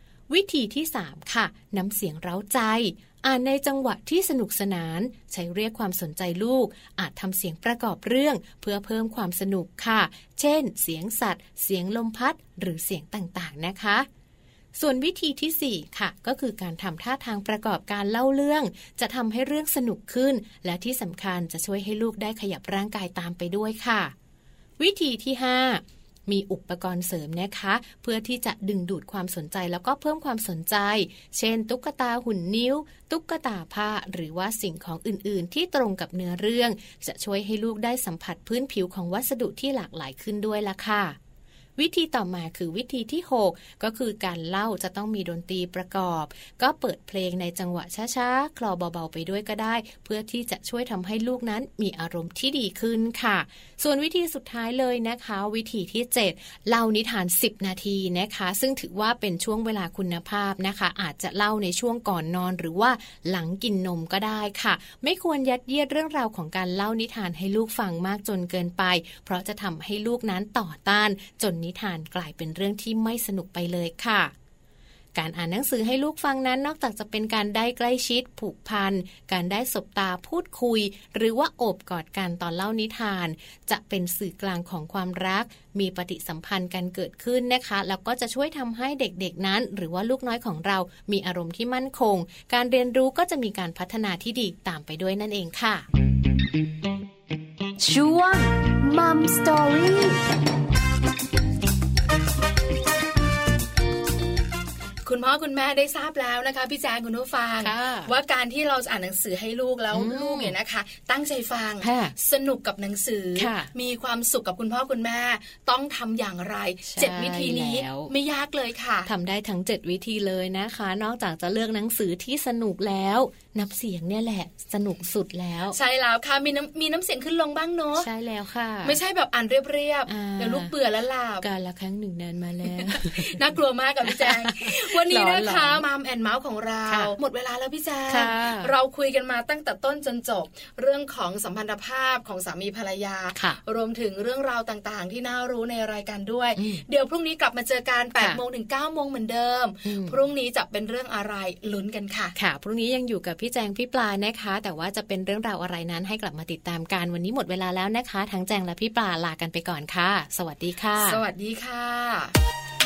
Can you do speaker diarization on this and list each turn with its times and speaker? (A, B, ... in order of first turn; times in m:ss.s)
0:00.3-0:14.1 A
0:14.8-0:24.1 A
0:24.8-0:41.2 A
0:41.8-1:14.3 A
1:15.2-1:35.8 A
1:37.8-1:40.2 B
1:45.0-1:59.1 C
1:47.6-1:48.1 A
1:49.9-1:50.6 A
1:51.8-1:52.2 A
1:53.4-1:53.7 A
1:56.9-1:58.1 A
1:59.1-2:05.8 A
2:05.7-2:08.1 C
2:08.0-2:09.0 A
2:08.8-2:11.4 C
2:10.1-2:10.7 A
2:11.4-2:13.4 A
2:12.6-2:32.3 C
2:14.1-2:15.8 A
2:16.9-2:17.2 A
2:18.1-2:18.7 A
2:26.6-2:26.8 A
2:29.8-2:30.2 A
2:32.4-2:41.2 A
2:41.0-2:42.3 C